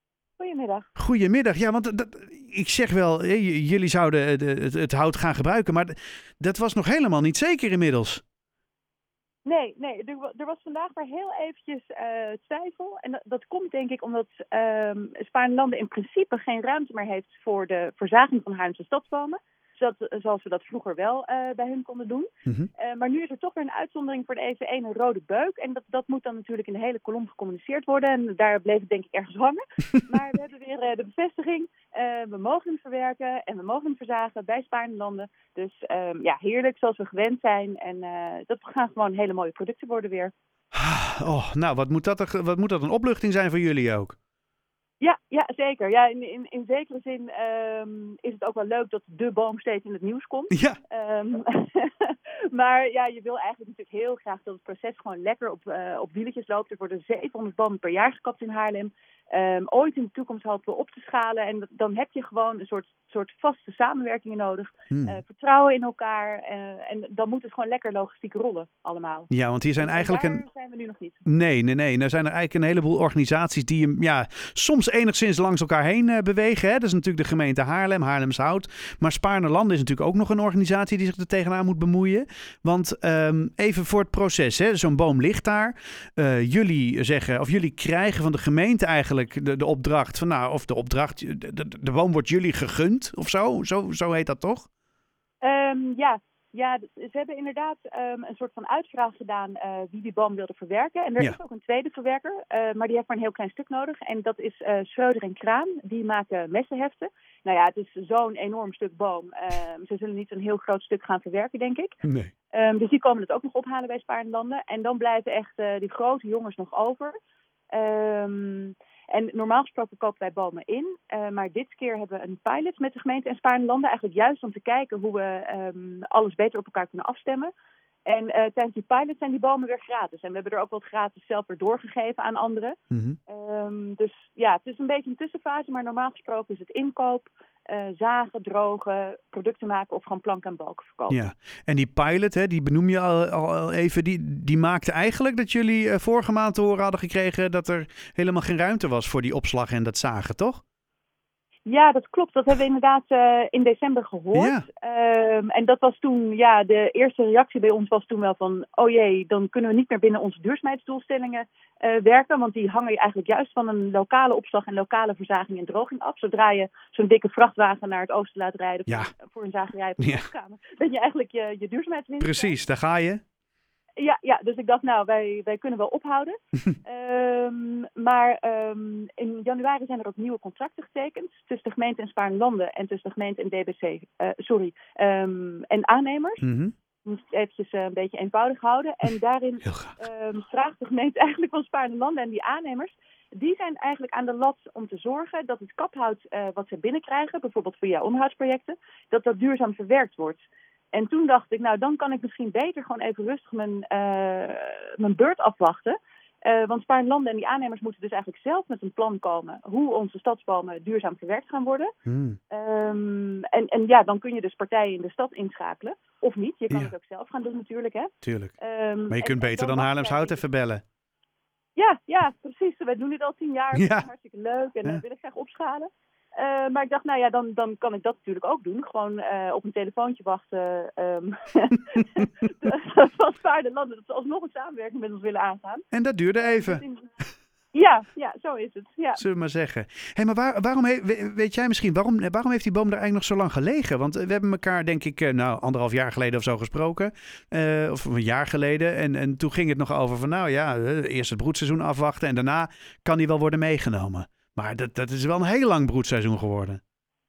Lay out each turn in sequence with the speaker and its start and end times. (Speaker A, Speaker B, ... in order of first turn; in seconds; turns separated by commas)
Speaker A: 0.4-0.9, Speaker B: 1.0-8.2, Speaker A: 9.4-40.3, Speaker B: 40.7-44.2, Speaker A: 45.0-71.2, Speaker B: 50.5-50.8, Speaker B: 64.9-65.2, Speaker B: 69.3-70.4, Speaker B: 71.2-94.7, Speaker A: 95.4-112.0, Speaker B: 112.0-112.3, Speaker A: 112.5-117.2, Speaker A: 117.7-127.5, Speaker A: 128.1-132.8, Speaker B: 132.9-133.2, Speaker A: 133.3-141.2, Speaker B: 141.1-150.6, Speaker A: 151.7-172.6, Speaker B: 154.3-154.7, Speaker B: 170.0-170.2, Speaker B: 172.2-173.2, Speaker A: 174.0-186.4, Speaker B: 186.4-186.7, Speaker A: 187.1-211.9, Speaker B: 189.6-190.0, Speaker B: 212.1-212.4, Speaker A: 212.5-220.4, Speaker B: 218.2-218.5, Speaker B: 219.1-220.8, Speaker A: 221.8-235.9, Speaker B: 223.7-224.1, Speaker B: 235.9-236.8, Speaker A: 236.4-237.1, Speaker A: 237.7-239.2, Speaker B: 239.2-256.8